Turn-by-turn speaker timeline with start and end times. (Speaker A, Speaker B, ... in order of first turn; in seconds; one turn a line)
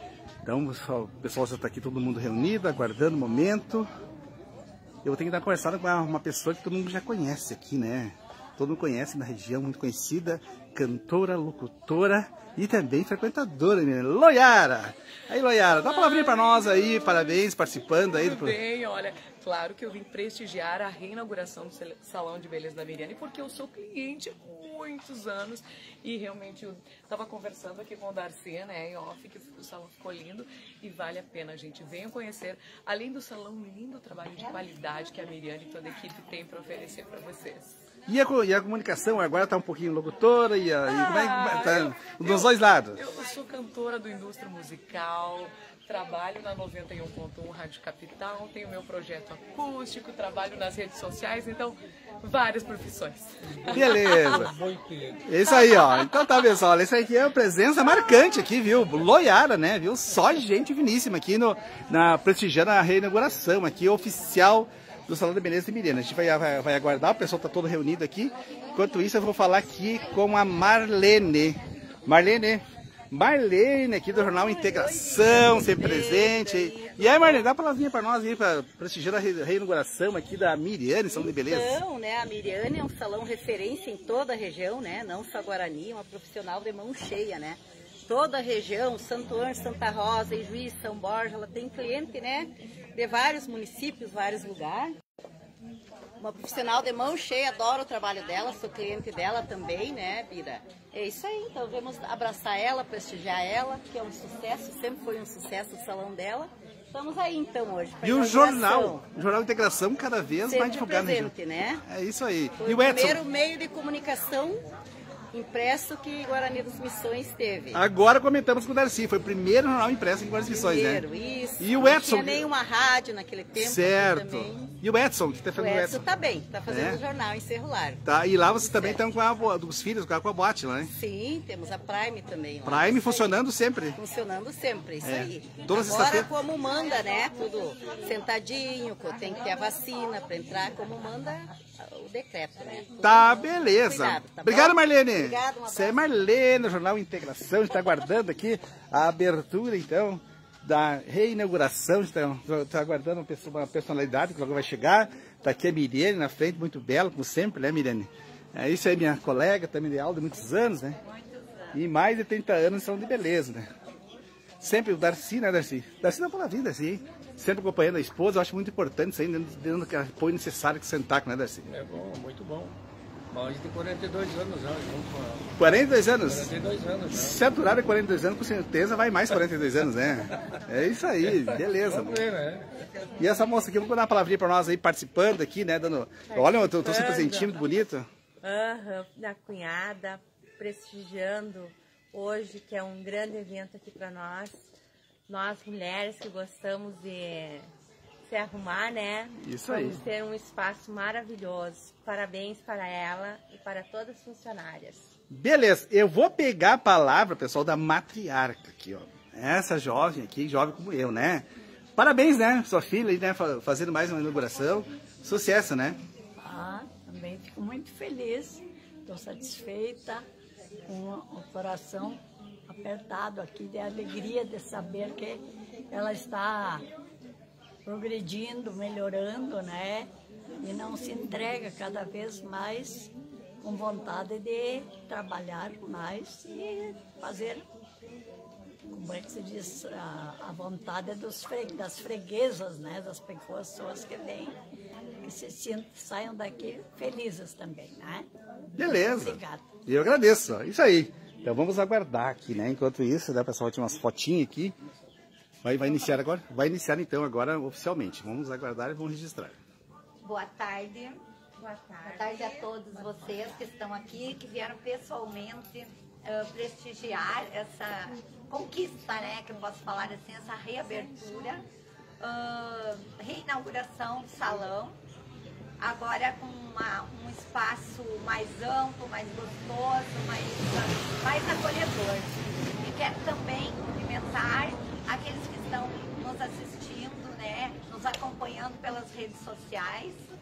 Speaker A: 0.4-3.9
Speaker A: 5.0-18.6
Speaker B: 18.1-37.8
Speaker A: 38.1-43.0
Speaker B: 40.9-54.4
Speaker C: 53.4-55.3
Speaker A: 53.7-54.5
Speaker A: 55.3-81.8
Speaker D: 74.2-77.5
Speaker D: 81.1-95.0
Speaker D: 96.2-109.0
Speaker A: 108.0-111.3
Speaker D: 110.5-111.8
Speaker A: 111.8-113.2
Speaker D: 112.6-114.7
Speaker D: 115.3-117.8
Speaker A: 117.7-121.0
Speaker D: 120.5-124.7
Speaker A: 121.6-122.4
Speaker A: 123.5-126.1
Speaker D: 125.5-128.0
Speaker A: 126.7-127.0
Speaker A: 128.1-130.9
Speaker D: 128.6-129.0
Speaker D: 130.9-133.3
Speaker A: 132.7-134.0
Speaker D: 133.9-145.9
Speaker A: 135.0-136.3
Speaker A: 143.0-161.0
Speaker E: 161.0-161.8
Speaker A: 161.7-163.7
Speaker A: 164.6-171.7
Speaker C: 171.7-172.8
Speaker C: 173.3-175.6
Speaker A: 175.6-176.5
Speaker C: 176.2-177.4
Speaker A: 177.1-182.2
Speaker C: 181.3-182.8
Speaker A: 183.2-188.1
Speaker F: 186.3-187.6
Speaker F: 188.4-194.7
Speaker F: 195.3-197.7
Speaker F: 198.2-205.1
Speaker A: 199.4-200.0
Speaker A: 205.3-216.0
Speaker G: 216.4-220.3
Speaker G: 220.9-226.9
Speaker G: 227.8-237.7
Speaker G: 238.9-244.6
Speaker G: 245.2-249.7
Speaker A: 248.8-254.8
Speaker A: 255.6-259.6
Speaker E: 260.2-261.2
Speaker F: 261.6-263.1
Speaker E: 262.0-271.6
Speaker E: 272.2-275.0
Speaker E: 275.8-290.2